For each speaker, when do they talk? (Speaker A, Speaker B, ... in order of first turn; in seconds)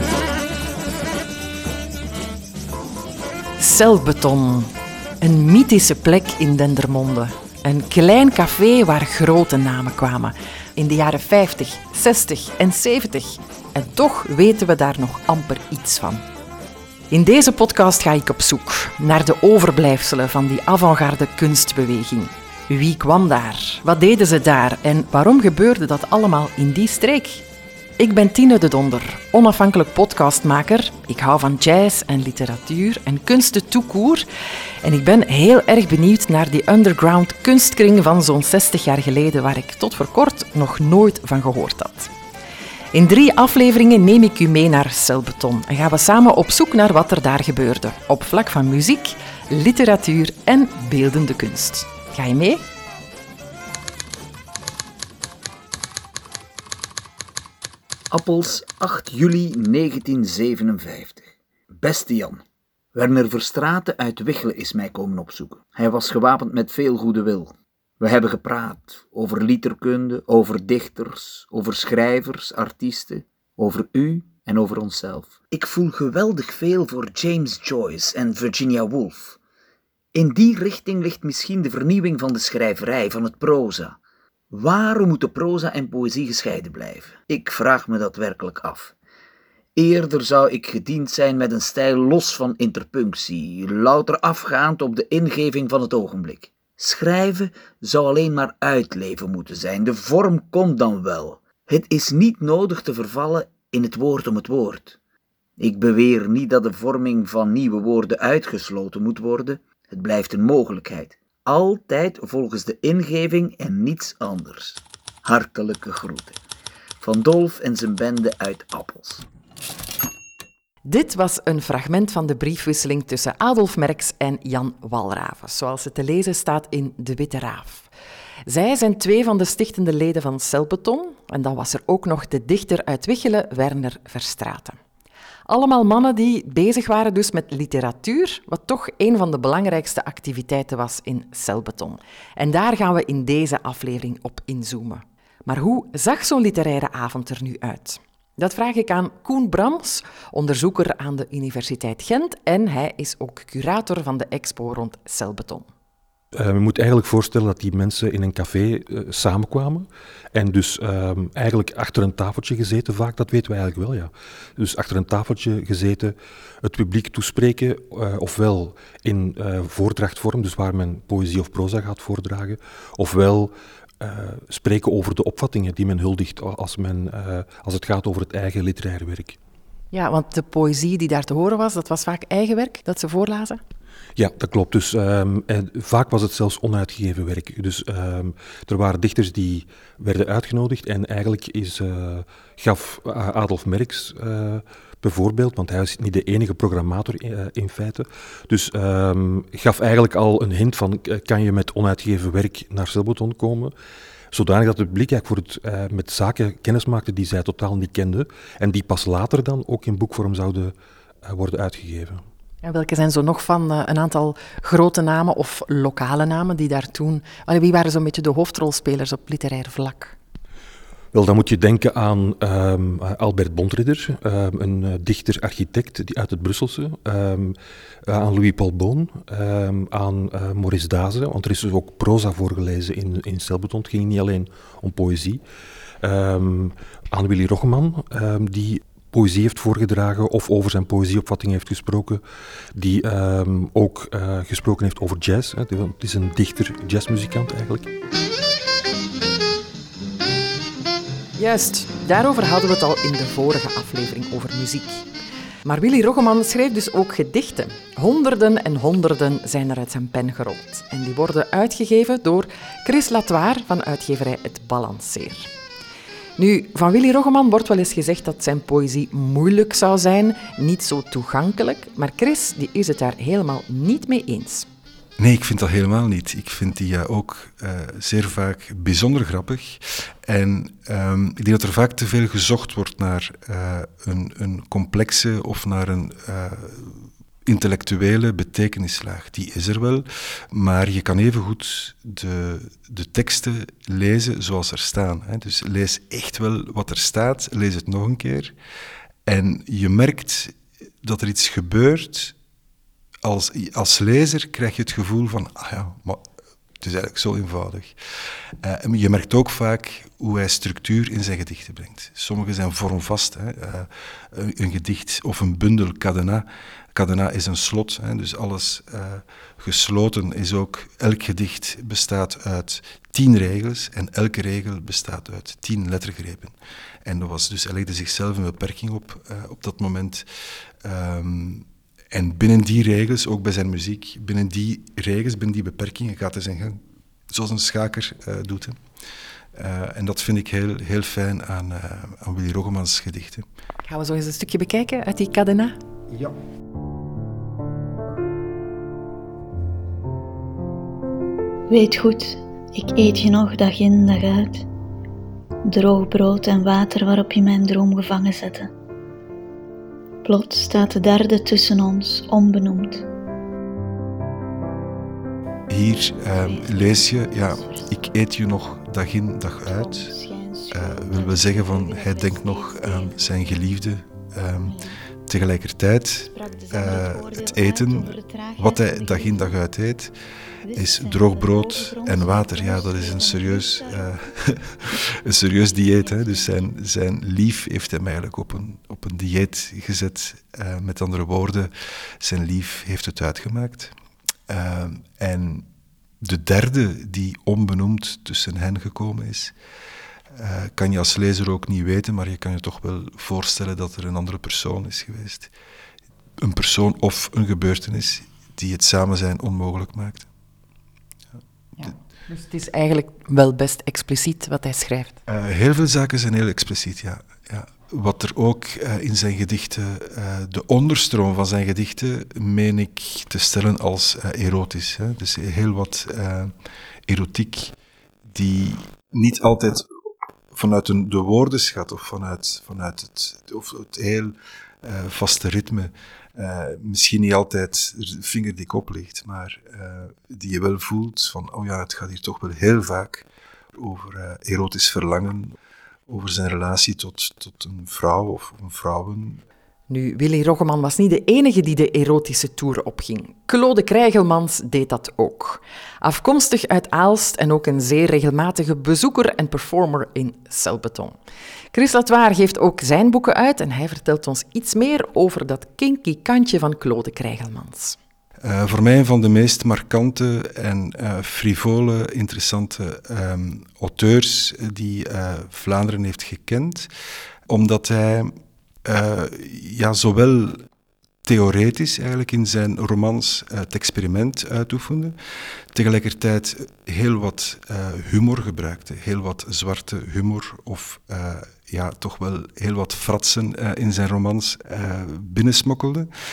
Speaker A: 3.6-16.2, 17.1-27.4, 28.0-34.2, 34.8-42.1, 42.9-52.6, 120.9-127.9, 128.5-134.8, 135.5-155.7, 179.9-183.6, 212.6-220.2, 251.4-255.1, 255.7-265.5, 266.4-274.7, 343.9-345.8, 411.8-415.2, 449.9-461.2, 461.7-468.0
Speaker B: 58.1-62.4, 63.0-79.4, 80.1-84.0, 84.5-88.9, 89.8-105.0, 105.6-116.4, 117.0-119.2
Speaker C: 156.3-179.4, 184.2-203.7, 204.3-212.2, 221.1-235.4, 236.0-242.2, 242.7-247.9
Speaker D: 275.2-298.5, 299.3-302.4, 303.2-306.2, 306.8-308.0, 308.6-330.3, 330.8-338.8, 339.6-343.4, 365.7-370.1, 370.7-380.1, 380.7-393.9, 394.5-395.7, 396.2-399.5, 400.3-405.5, 406.4-410.3, 415.3-426.5, 427.1-427.8, 428.3-429.9, 430.5-445.6, 446.1-449.4, 468.4-476.9, 477.5-480.6, 481.2-485.2, 485.7-496.1
Speaker E: 351.7-354.6, 355.7-358.7, 360.2-363.1, 366.3-368.0, 369.6-373.4, 374.6-375.0, 376.3-379.5, 380.6-384.2, 385.7-386.5